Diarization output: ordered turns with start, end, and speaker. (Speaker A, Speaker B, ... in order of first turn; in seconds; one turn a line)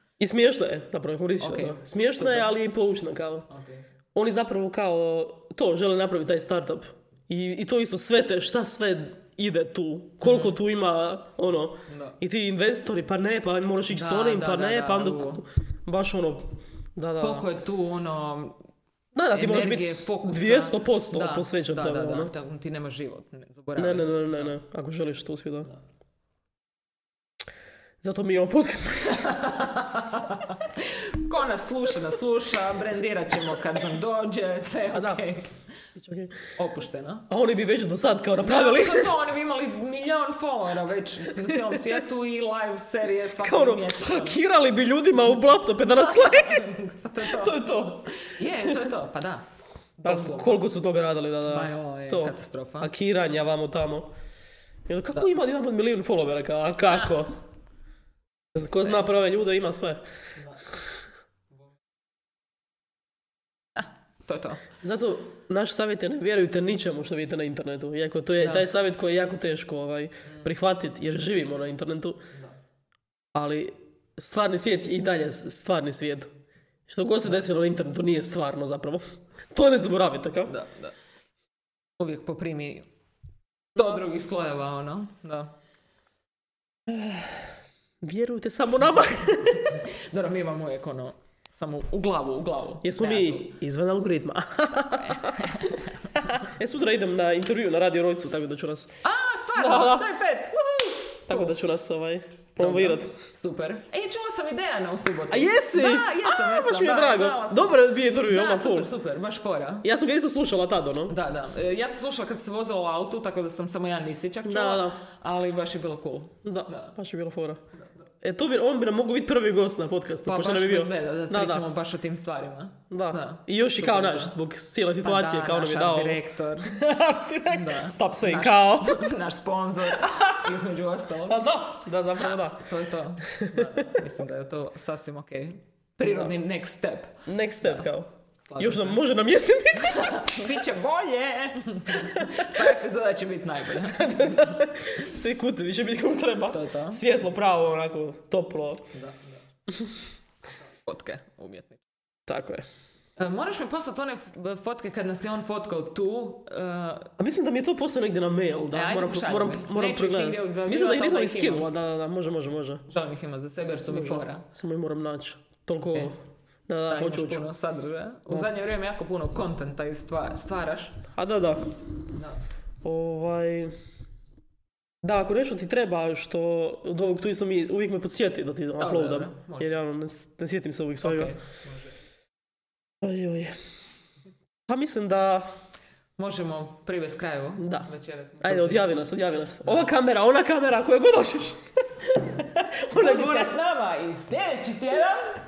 Speaker A: 0.2-3.5
Speaker B: 1.4-2.5
Speaker B: 3.5-3.9
Speaker A: 4.2-17.5
Speaker B: 10.2-10.6
Speaker B: 11.9-12.2
Speaker B: 13.9-15.4
Speaker B: 17.2-18.6
Speaker A: 19.1-22.3
Speaker B: 19.3-24.6
Speaker A: 23.8-25.7
Speaker A: 28.0-29.5
Speaker B: 29.0-35.6
Speaker A: 34.9-35.3
Speaker A: 36.0-36.4
Speaker B: 36.5-37.3
Speaker A: 37.3-39.2
Speaker B: 38.4-44.4
Speaker A: 41.5-41.8
Speaker A: 43.4-48.9
Speaker B: 45.9-50.6
Speaker A: 50.0-54.1
Speaker B: 51.4-52.9
Speaker A: 54.9-57.4
Speaker A: 58.5-60.0
Speaker B: 63.8-64.7
Speaker A: 64.8-72.2
Speaker B: 68.4-68.7
Speaker A: 73.3-76.3
Speaker A: 76.9-80.5
Speaker B: 80.5-81.0
Speaker B: 82.0-82.9
Speaker B: 83.8-85.5
Speaker A: 86.9-87.5
Speaker A: 88.0-89.8
Speaker B: 89.5-93.5
Speaker A: 92.8-99.0
Speaker B: 94.9-96.4
Speaker B: 99.0-101.5
Speaker A: 99.5-100.1
Speaker A: 101.3-103.1
Speaker B: 102.6-109.9
Speaker A: 105.3-108.9
Speaker A: 109.8-111.2
Speaker B: 111.1-117.0
Speaker A: 114.5-115.0
Speaker A: 116.4-117.6
Speaker A: 118.2-121.7
Speaker B: 120.2-124.4
Speaker A: 122.9-129.1
Speaker B: 125.0-126.7
Speaker B: 127.5-131.4
Speaker A: 131.3-132.7
Speaker B: 132.2-137.8
Speaker A: 133.3-134.0
Speaker A: 136.0-136.3
Speaker A: 137.3-138.1
Speaker B: 138.5-139.0
Speaker A: 138.6-140.4
Speaker B: 139.8-144.6
Speaker A: 142.0-142.6
Speaker A: 143.8-148.9
Speaker B: 146.5-147.0
Speaker B: 148.9-149.4
Speaker A: 149.7-150.0
Speaker B: 150.8-151.8
Speaker A: 152.3-152.7
Speaker B: 153.2-157.1
Speaker A: 157.2-162.9
Speaker B: 158.7-161.7
Speaker B: 162.9-164.5
Speaker A: 163.9-167.4
Speaker B: 166.9-171.1
Speaker A: 171.1-171.6
Speaker B: 172.1-172.4
Speaker A: 172.8-173.8
Speaker A: 175.0-181.3
Speaker B: 178.8-179.8
Speaker B: 181.0-181.9
Speaker A: 183.0-183.6
Speaker A: 184.7-185.5
Speaker B: 186.2-189.0
Speaker A: 187.6-187.9
Speaker A: 188.4-193.6
Speaker B: 189.6-189.9
Speaker B: 192.9-195.4